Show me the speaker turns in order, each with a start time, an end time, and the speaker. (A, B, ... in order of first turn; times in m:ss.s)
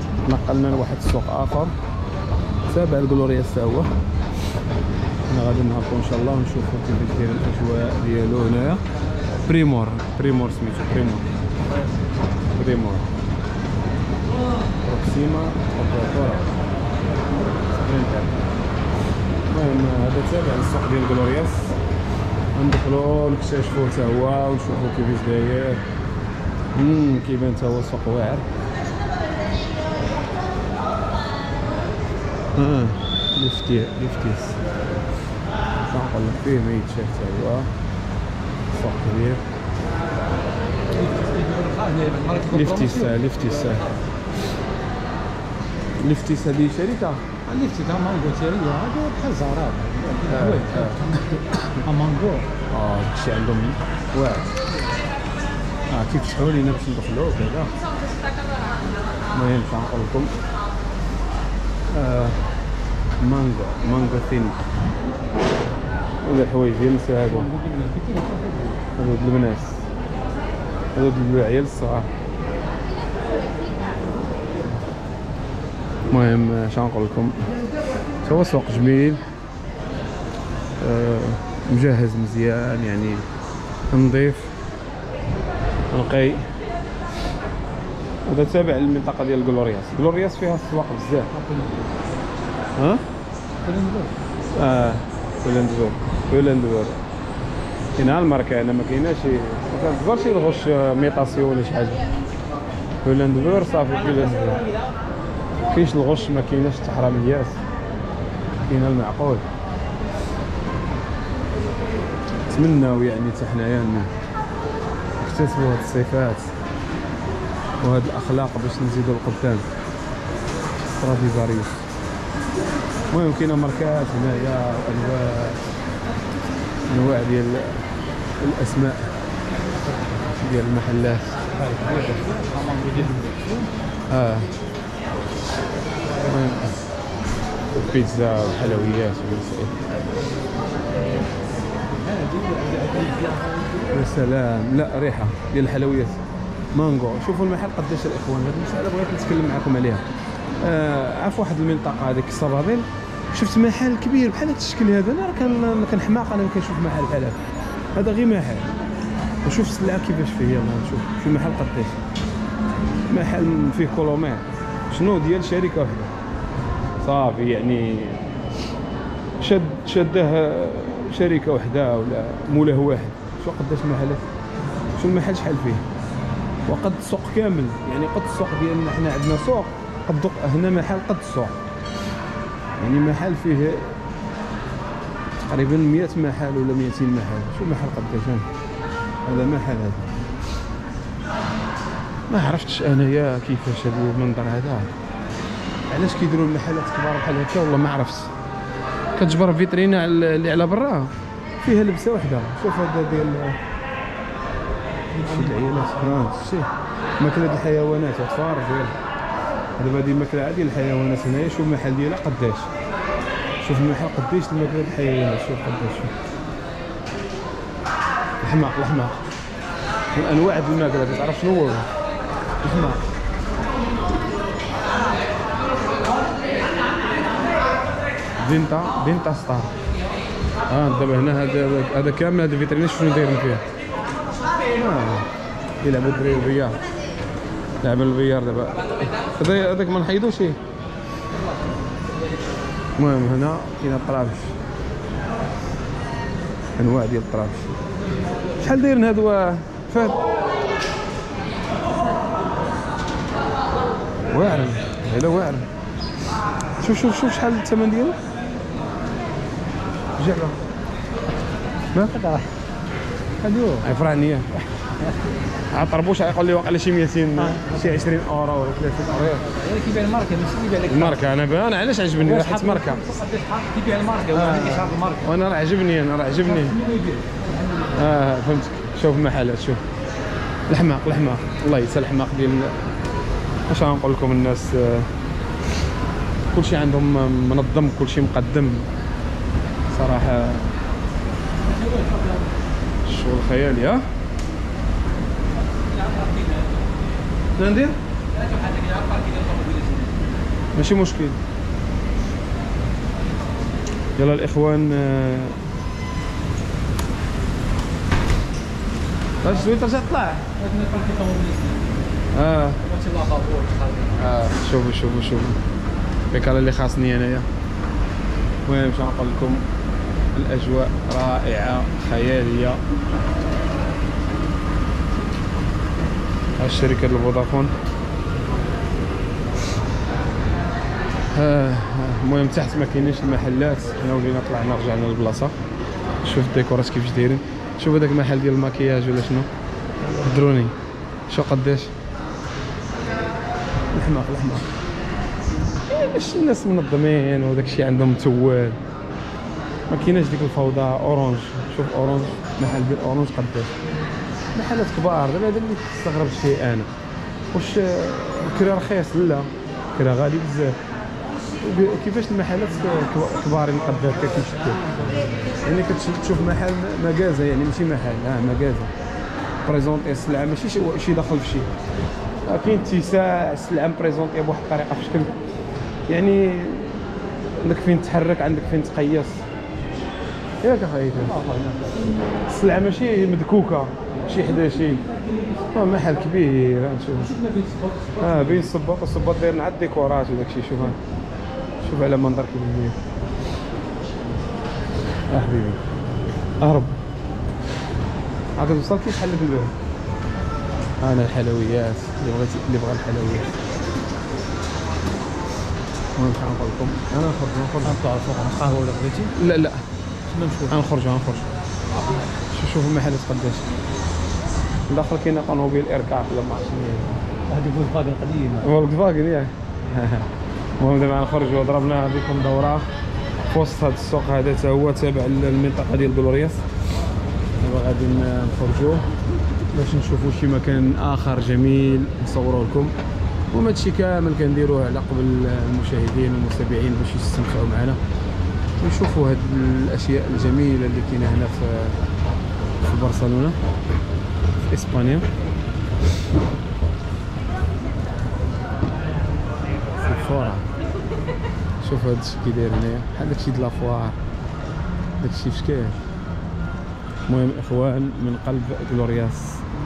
0:00.2-0:01.7 A
0:02.7-0:03.9 A
0:05.3-0:08.8 A
0:09.4-0:11.3 A
0:12.5-0:13.1 A
0:14.8-0:16.5 A
0:17.8-0:18.4 A
0:19.5-0:21.8 A
0:22.6-0:25.8 A
0:26.8-0:28.5 A
0:32.6-0:34.6 A
0:35.9-0:37.7 A
0:38.7-0:39.4 A
0:40.9-0:43.8 B
0:42.5-0:44.0 A
0:46.0-0:47.2 A
0:47.4-0:52.5 B
0:50.3-0:51.1 A
0:52.7-0:54.6 A
0:55.9-0:57.7 A
0:59.3-1:00.3 A
1:01.9-1:02.4 A
1:03.2-1:04.6 A
1:06.2-1:07.5 A
1:07.3-1:08.8 B
1:09.0-1:09.8 A
1:10.9-1:12.1 A
1:16.1-1:17.5 A
1:18.2-1:19.2 A
1:20.8-1:23.2 A
1:23.9-1:24.5 A
1:25.9-1:26.5 A
1:28.3-1:31.3 A
1:31.3-1:31.8 B
1:32.8-1:33.0 A
1:33.6-1:34.1 B
1:34.6-1:37.0 A
1:38.0-1:42.1 A
1:43.0-1:44.7 A
1:45.7-1:47.6 A
1:48.6-1:49.4 A
1:52.5-1:54.1 A
1:55.2-1:56.5 A
1:57.8-1:59.6 A
2:00.9-2:01.8 A
2:03.1-2:05.6 A
2:06.9-2:07.9 A
2:08.4-2:09.1 A
2:10.3-2:11.4 A
2:11.6-2:13.7 B
2:14.1-2:14.5 A
2:16.2-2:16.8 A
2:17.7-2:19.8 A
2:21.9-2:24.0 B
2:23.9-2:26.2 A
2:26.7-2:30.1 A
2:30.6-2:37.4 A
2:38.0-2:38.7 A
2:39.4-2:42.0 A
2:43.1-2:46.1 A
2:47.0-2:48.3 A
2:49.4-2:54.2 A
2:55.0-2:55.8 A
2:56.7-3:01.6 A
3:02.8-3:03.9 A
3:05.5-3:08.5 A
3:09.3-3:10.1 A
3:12.3-3:14.9 A
3:15.9-3:18.3 A
3:19.2-3:23.6 A
3:25.1-3:26.2 B
3:25.2-3:29.0 A
3:29.8-3:32.7 A
3:33.6-3:36.1 A
3:38.4-3:39.2 A
3:40.1-3:41.9 A
3:42.6-3:43.0 A
3:48.4-3:49.7 A
3:50.7-3:53.6 A
3:54.7-3:55.3 A
3:55.8-3:56.8 A
3:57.8-4:00.6 A
4:03.0-4:04.5 A
4:06.8-4:07.7 A
4:08.6-4:10.2 A
4:14.3-4:15.7 A
4:16.8-4:18.2 A
4:20.2-4:20.6 A
4:22.0-4:22.5 B
4:23.4-4:23.9 B
4:23.8-4:24.7 A
4:25.7-4:29.5 A
4:27.5-4:27.8 B
4:29.5-4:31.2 B
4:30.9-4:33.2 A
4:32.2-4:35.3 B
4:34.3-4:36.8 A
4:36.4-4:38.0 B
4:37.8-4:39.8 A
4:40.7-4:42.9 A
4:43.7-4:45.1 A
4:46.5-4:48.9 A
4:49.9-4:50.7 A
4:51.7-4:52.5 B
4:53.1-4:54.0 A
4:55.8-4:56.9 B
4:57.6-4:58.0 A
4:58.3-5:00.2 B
5:00.8-5:01.4 A
5:04.2-5:05.6 A
5:09.4-5:10.5 A
5:10.6-5:12.0 B
5:12.3-5:12.8 A
5:12.8-5:14.2 B
5:14.2-5:15.6 A
5:16.3-5:17.5 A
5:18.7-5:19.6 A
5:20.3-5:22.8 A
5:26.6-5:27.7 A
5:31.3-5:35.6 A
5:36.2-5:39.5 A
5:40.1-5:40.7 A
5:41.3-5:41.9 A
5:43.9-5:44.7 A
5:45.9-5:48.8 A
5:49.9-5:53.7 A
5:54.5-5:56.9 A
5:57.5-6:00.8 A
6:01.6-6:08.9 A
6:09.6-6:11.7 A
6:12.5-6:15.3 A
6:16.1-6:17.0 A
6:17.6-6:19.4 A
6:20.6-6:21.4 A
6:21.2-6:22.1 B
6:22.5-6:25.0 A
6:25.7-6:27.3 A
6:27.2-6:28.7 B
6:28.2-6:31.0 A
6:31.8-6:33.0 A
6:35.3-6:35.8 A
6:36.6-6:37.0 A
6:38.6-6:39.8 A
6:41.0-6:43.5 A
6:46.2-6:48.0 A
6:47.8-6:49.3 B
6:49.4-6:49.8 A
6:50.3-6:50.8 B
6:50.7-6:51.5 A
6:52.5-6:53.7 A
6:54.9-6:57.2 A
6:57.5-6:58.7 B
6:58.6-7:00.3 A
7:00.8-7:02.9 A
7:03.5-7:06.6 A
7:07.6-7:09.0 A
7:09.7-7:12.9 A
7:13.5-7:18.0 A
7:18.8-7:22.0 A
7:22.8-7:23.6 A
7:24.6-7:25.3 A
7:30.0-7:30.6 A
7:31.8-7:34.2 A
7:35.2-7:36.0 A
7:37.3-7:39.6 A